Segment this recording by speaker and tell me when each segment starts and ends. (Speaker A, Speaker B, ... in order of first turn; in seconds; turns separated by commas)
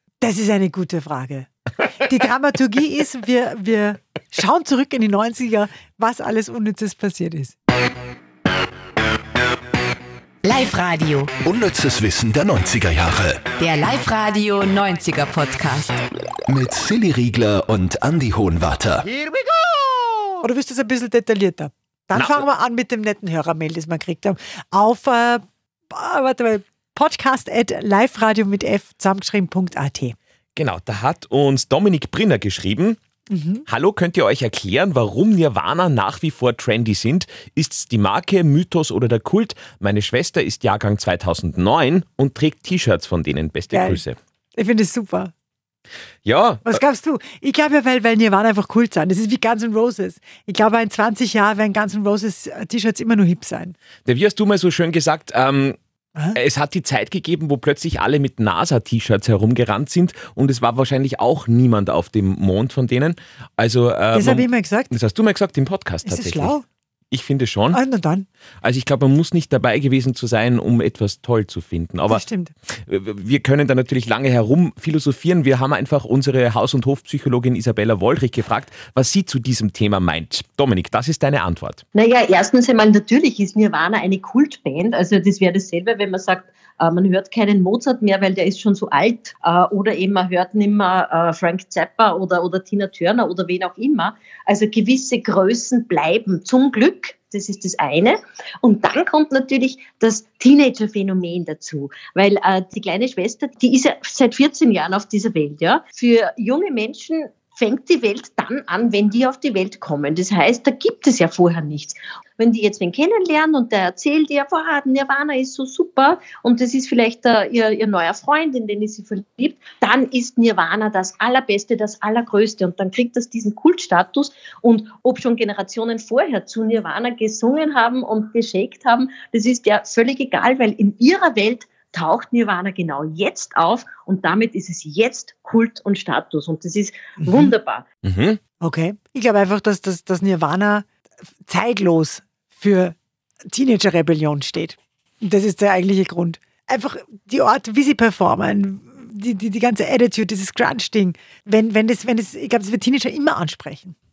Speaker A: 0.2-1.5, Speaker A: 2.0-7.5, Speaker B: 10.4-11.3, Speaker C: 11.4-13.5, Speaker B: 13.6-16.0, Speaker C: 16.5-19.1, Speaker A: 20.4-30.1, Speaker D: 22.1-22.4, Speaker D: 30.6-33.0, Speaker A: 33.3-33.6, Speaker D: 33.7-44.1, Speaker A: 43.7-44.0, Speaker A: 44.5-45.3, Speaker D: 46.2-46.8, Speaker A: 46.6-53.7, Speaker D: 54.0-55.8, Speaker D: 56.3-66.5, Speaker A: 64.1-64.9, Speaker A: 66.0-66.6, Speaker D: 67.1-67.8, Speaker A: 67.7-68.3, Speaker D: 68.6-72.2, Speaker A: 72.1-72.5, Speaker D: 72.9-81.8, Speaker E: 81.9-137.8, Speaker A: 137.2-137.5, Speaker D: 138.0-138.4, Speaker A: 138.6-140.9, Speaker A: 141.4-142.9, Speaker A: 143.5-153.9